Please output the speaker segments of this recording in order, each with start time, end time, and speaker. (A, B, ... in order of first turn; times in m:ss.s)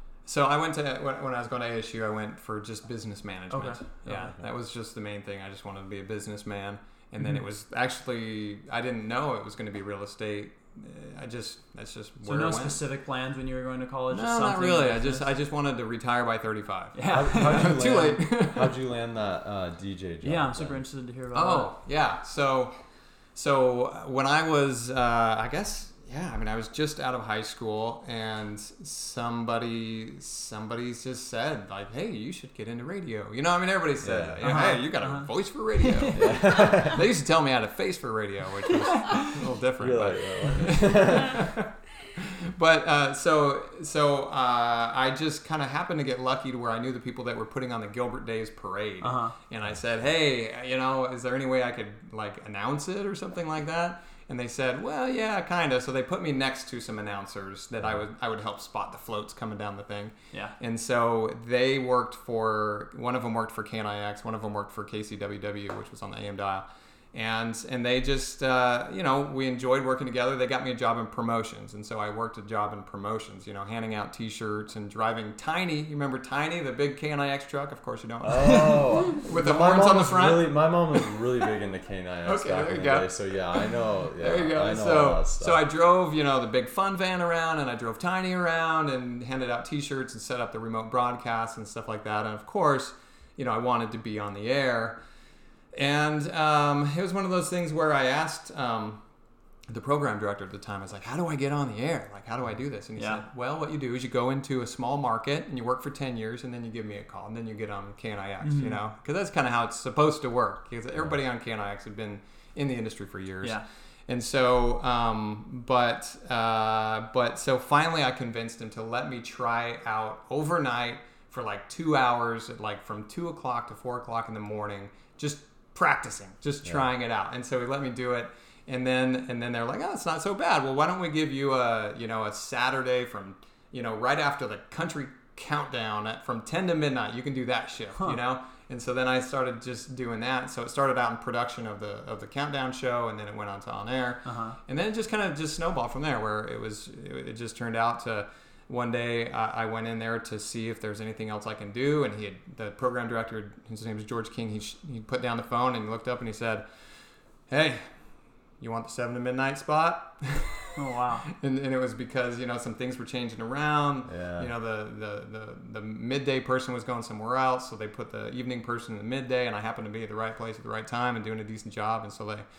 0:00.2-0:12.8 A
0:03.5-0:04.3 B
0:04.2-0:04.5 C
0:12.2-0:15.3 B
0:14.1-0:18.7 A
0:16.9-0:17.9 B
0:17.1-0:20.8 C
0:20.2-0:21.7 B
0:21.3-0:22.7 A
0:23.3-1:21.0 A
0:34.0-0:34.6 C
0:34.4-0:36.9 B
0:36.1-0:37.0 C
0:39.8-0:41.5 C
0:49.0-0:49.4 B
0:49.6-0:50.0 C
0:57.8-0:58.0 C
1:00.3-1:00.6 B
1:18.2-1:25.6 C
1:22.2-1:35.0 A
1:35.7-1:39.0 A
1:39.7-2:36.6 A
1:43.0-1:43.2 B
1:48.4-1:48.8 B
2:24.2-2:24.6 B
2:37.5-2:38.0 A
2:38.6-2:40.7 A
2:40.8-2:41.3 B
2:41.4-2:52.4 A
2:44.0-2:44.5 C